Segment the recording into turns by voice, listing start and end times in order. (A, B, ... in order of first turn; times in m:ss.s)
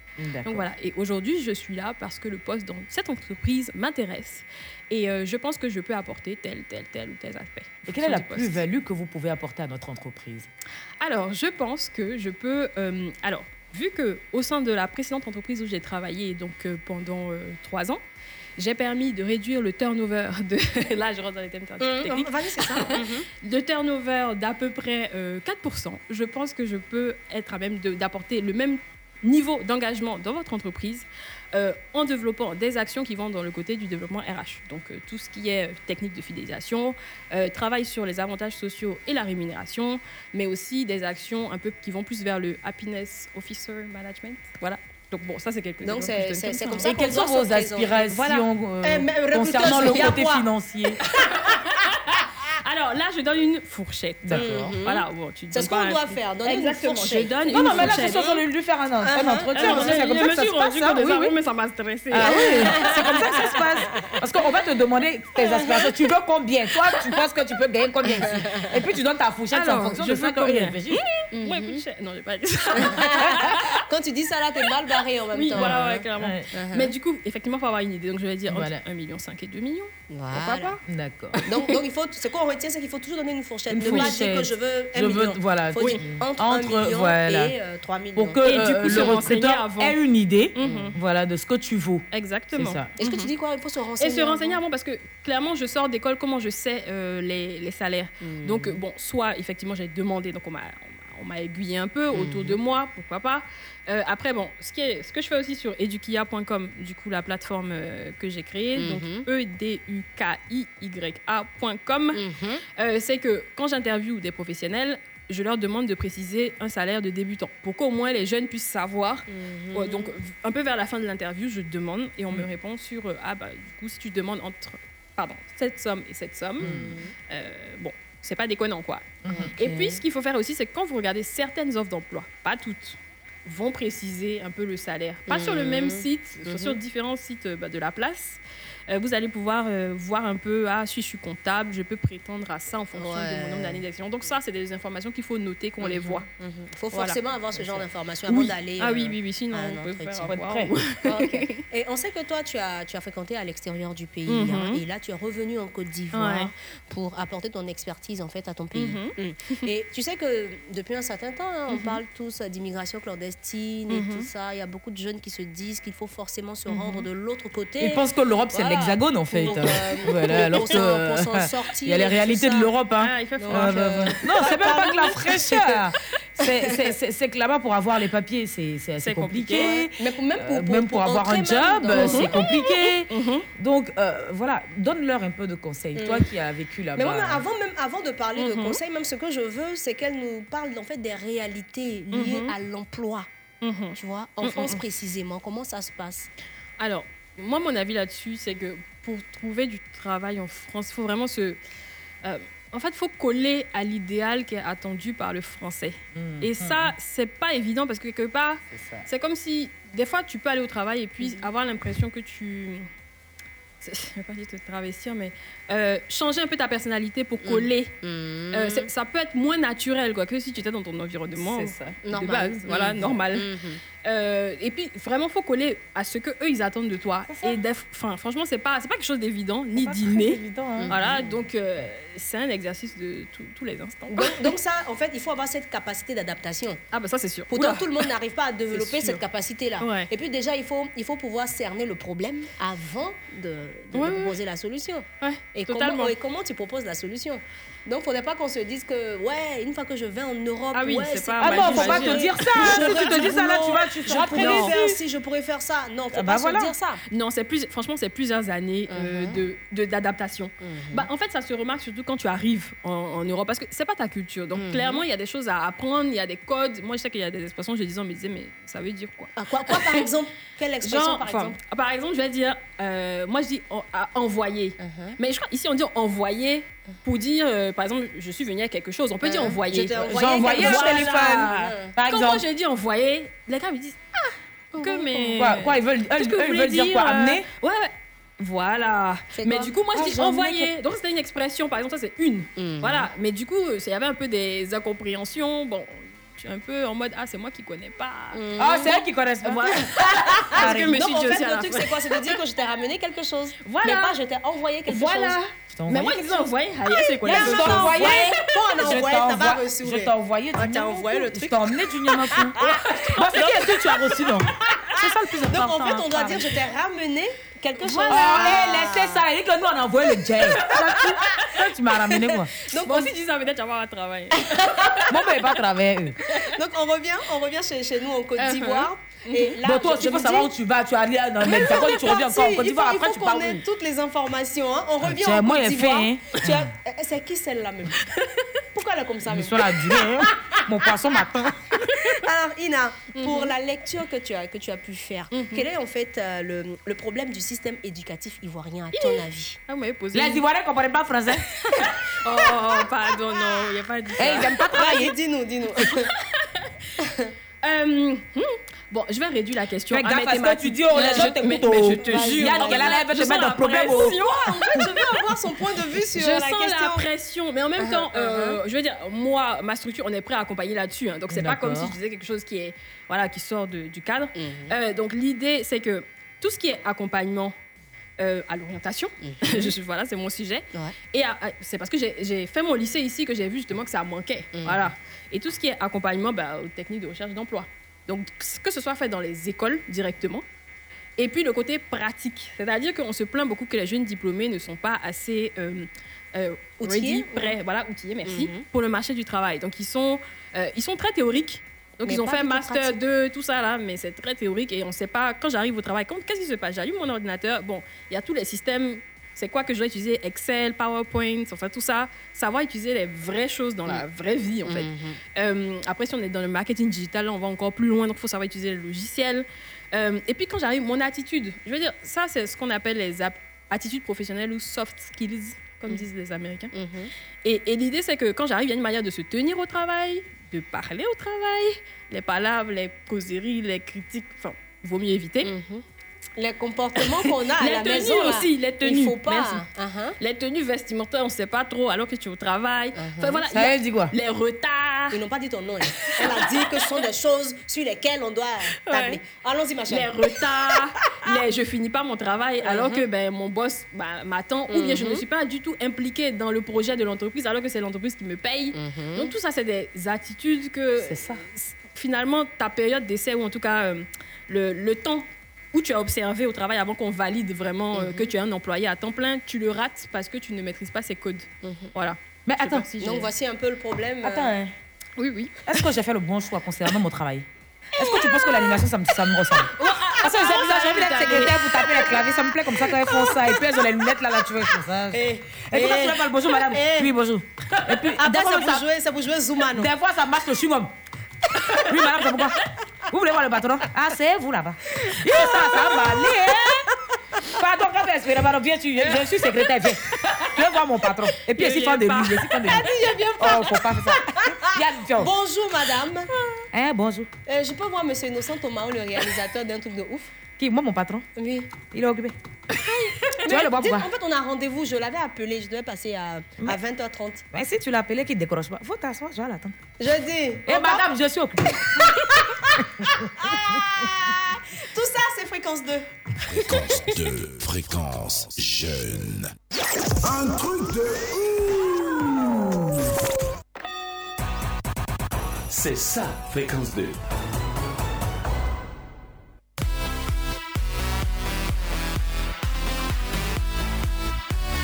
0:00.2-0:00.7 A
0:00.4-0:08.6 B
0:07.8-0:10.5 A
0:11.0-0:18.0 B
0:18.6-0:46.9 B
0:21.8-0:23.2 C
0:45.8-0:48.1 C
0:46.8-0:51.0 A
0:48.1-0:48.4 B
0:48.8-0:50.4 C
0:52.6-0:58.3 B
0:54.2-0:54.7 A
0:54.3-0:58.2 C
0:57.5-1:01.3 A
0:59.0-1:00.0 C
0:59.5-1:02.8 B
1:02.1-1:11.0 A
1:02.2-1:03.8 C
1:05.4-1:05.9 C
1:08.0-1:08.8 C
1:09.5-1:13.8 B
1:11.3-1:11.8 C
1:12.8-1:16.9 C
1:15.3-1:20.8 B
1:15.5-1:16.5 A
1:18.5-1:18.8 A
1:20.1-1:20.8 C
1:20.9-1:21.4 A
1:21.4-1:29.2 C
1:23.7-1:27.5 A
1:23.8-1:24.1 B
1:28.1-1:32.9 A
1:28.4-1:30.0 B
1:30.6-1:30.9 B
1:30.6-1:30.9 C
1:32.1-1:33.3 B
1:33.0-1:34.6 C
1:34.0-1:52.2 B
1:38.2-1:38.7 C
1:42.1-1:42.6 C
1:48.8-1:49.2 C
1:52.1-1:52.6 C
1:52.8-2:26.2 B
1:59.3-2:00.1 C
2:06.6-2:06.9 A
2:06.6-2:07.1 C
2:09.2-2:10.0 A
2:15.3-2:16.8 C
2:22.9-2:23.8 C
2:25.8-2:30.3 C
2:26.9-2:27.2 B
2:28.3-2:31.6 B
2:30.3-2:30.7 A
2:31.0-2:52.7 C
2:34.3-2:34.8 B
2:36.1-2:36.5 B
2:38.7-2:39.1 B
2:41.7-2:42.0 B
2:43.9-2:44.3 B
2:47.8-3:07.4 A
2:53.0-2:54.8 B
2:53.4-2:55.8 C
2:56.4-2:56.9 C
2:59.0-2:59.8 B
2:59.6-3:02.5 C
3:01.9-3:03.5 B
3:06.0-3:06.3 C
3:07.0-3:13.3 C
3:08.4-3:08.8 B
3:12.1-3:12.5 B
3:13.6-3:14.8 B
3:14.0-3:16.3 C
3:16.8-3:21.6 B
3:22.2-3:32.8 B
3:26.1-3:26.9 A
3:28.7-3:29.0 A
3:33.8-3:37.9 B
3:37.4-3:38.9 C
3:38.5-3:43.5 B
3:41.4-3:41.9 A
3:42.0-3:43.8 C
3:44.0-3:54.5 B
3:47.3-3:47.6 A
3:49.8-3:51.1 A
3:50.8-3:51.1 C
3:54.1-3:56.8 C
3:56.9-3:58.0 B
3:57.5-4:17.0 C
3:58.7-3:59.2 B
3:59.8-4:00.1 B
4:03.9-4:04.4 B
4:05.2-4:06.1 B
4:10.7-4:13.3 B
4:11.4-4:14.7 A
4:14.1-4:14.9 B
4:16.1-4:16.7 A
4:17.1-4:30.1 B
4:18.9-4:19.4 C
4:20.6-4:21.1 C
4:24.6-4:25.0 C
4:29.4-4:31.6 C
4:30.8-4:44.0 B
4:34.8-4:35.2 C
4:39.2-4:41.9 C
4:39.9-4:42.4 A
4:44.7-4:45.5 C
4:44.8-4:58.5 B
4:45.4-4:47.4 A
4:49.3-4:49.7 C
4:49.9-4:50.7 A
4:52.6-4:53.1 C
4:58.3-4:59.0 C
4:58.6-4:59.8 A
4:59.4-5:02.4 B
4:59.8-5:05.4 C
5:00.5-5:01.0 A
5:03.6-5:04.2 B
5:04.9-5:08.4 B
5:05.7-5:06.5 A
5:07.2-5:16.4 A
5:07.2-5:13.7 C
5:15.4-5:19.2 C
5:17.9-5:22.5 A
5:18.1-5:18.5 B
5:22.3-5:23.1 C
5:22.8-5:25.0 B
5:24.4-5:25.0 C
5:25.1-5:26.2 A
5:26.3-5:30.5 C
5:28.4-5:29.6 B
5:29.6-5:33.6 A
5:31.4-5:38.0 C
5:35.0-5:36.6 A
5:38.7-5:40.4 C
5:39.3-5:41.5 A
5:42.0-5:49.6 C
5:43.1-5:43.5 B
5:45.3-5:45.6 B
5:48.9-5:50.4 B
5:50.1-5:51.4 A
5:51.7-5:54.6 B
5:52.5-5:52.8 C
5:54.2-5:55.1 A
5:54.7-5:56.1 C
5:57.0-5:57.3 C
5:57.6-6:05.0 B
5:59.9-6:04.1 A
6:00.9-6:01.4 C
6:02.0-6:02.9 C
6:03.8-6:07.0 C
6:06.1-6:17.5 B
6:07.8-6:08.6 C
6:11.3-6:11.9 A
6:14.3-6:14.8 C
6:18.2-6:30.4 B
6:19.2-6:19.7 C
6:24.6-6:24.9 C
6:31.2-7:06.7 B
6:36.8-6:37.5 C
6:38.2-6:38.6 C
6:42.0-6:43.0 C
6:54.6-6:55.2 C
7:06.7-7:07.1 C
7:07.4-7:15.5 B
7:15.4-7:15.8 C
7:16.4-7:20.2 C
7:17.0-7:19.6 B
7:20.2-7:25.2 B
7:23.0-7:23.4 C
7:23.5-7:24.1 A
7:25.1-7:30.1 C
7:26.0-7:26.5 B
7:28.9-7:29.2 B
7:29.9-7:53.3 B
7:32.6-7:33.0 C
7:34.7-7:35.2 C
7:38.7-7:39.3 C
7:41.0-7:41.4 A
7:47.9-7:48.3 C
7:51.6-7:51.9 C
7:52.5-7:52.8 A
7:53.0-7:54.5 C
7:54.2-7:54.7 A
7:55.2-7:55.6 B
7:55.6-8:08.8 A
7:59.8-8:01.6 B
7:59.8-8:00.2 C
8:01.0-8:02.4 C
8:05.1-8:07.1 C
8:08.1-8:09.9 C
8:09.8-8:10.9 A
8:11.8-8:12.6 A
8:13.1-8:16.8 A
8:15.0-8:16.3 C
8:17.5-8:22.8 A
8:21.5-8:23.3 B
8:22.7-8:26.3 C
8:23.4-8:25.3 A
8:26.7-8:27.3 A
8:27.4-8:30.3 C
8:30.6-8:31.2 A
8:31.3-8:31.7 C
8:31.9-8:32.3 A
8:32.8-8:33.4 B
8:33.4-8:34.1 A
8:33.4-8:37.4 C
8:37.5-8:39.7 A
8:40.0-8:41.1 C
8:40.7-8:41.9 A
8:41.9-8:46.1 C
8:46.5-8:49.5 D
8:50.2-8:52.8 E